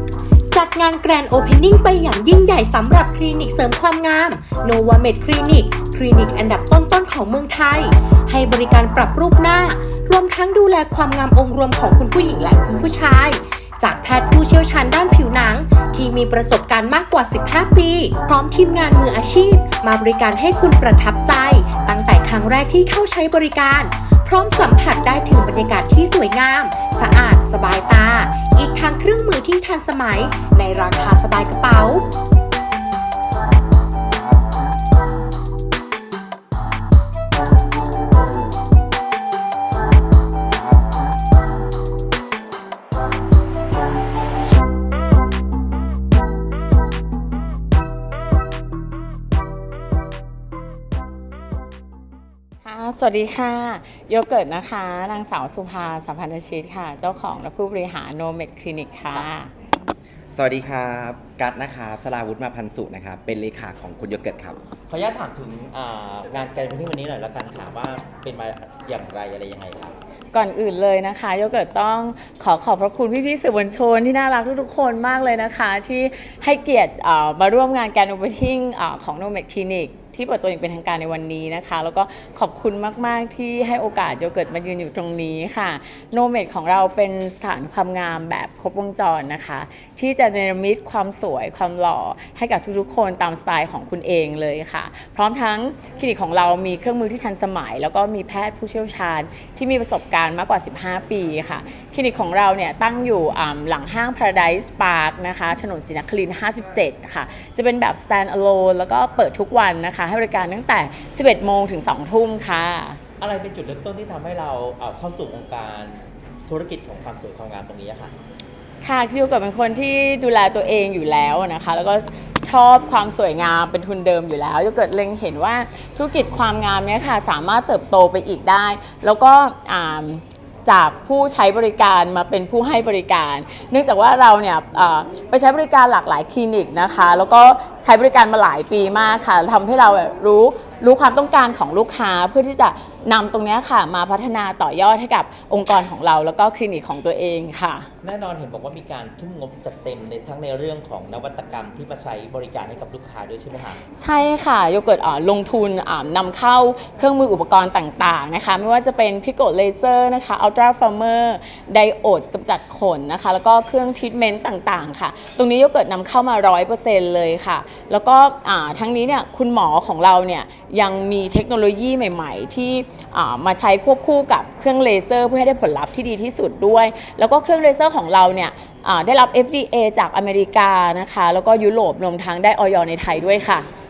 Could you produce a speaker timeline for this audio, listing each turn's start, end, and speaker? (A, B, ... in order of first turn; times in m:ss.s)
0:00.5-0:32.1 A
0:52.6-0:59.5 B
1:00.3-1:04.6 C
1:04.9-1:10.0 D
1:10.3-1:53.0 B
1:53.2-1:58.1 D
1:58.8-2:27.9 B
2:28.0-2:33.8 D
2:34.0-3:03.7 B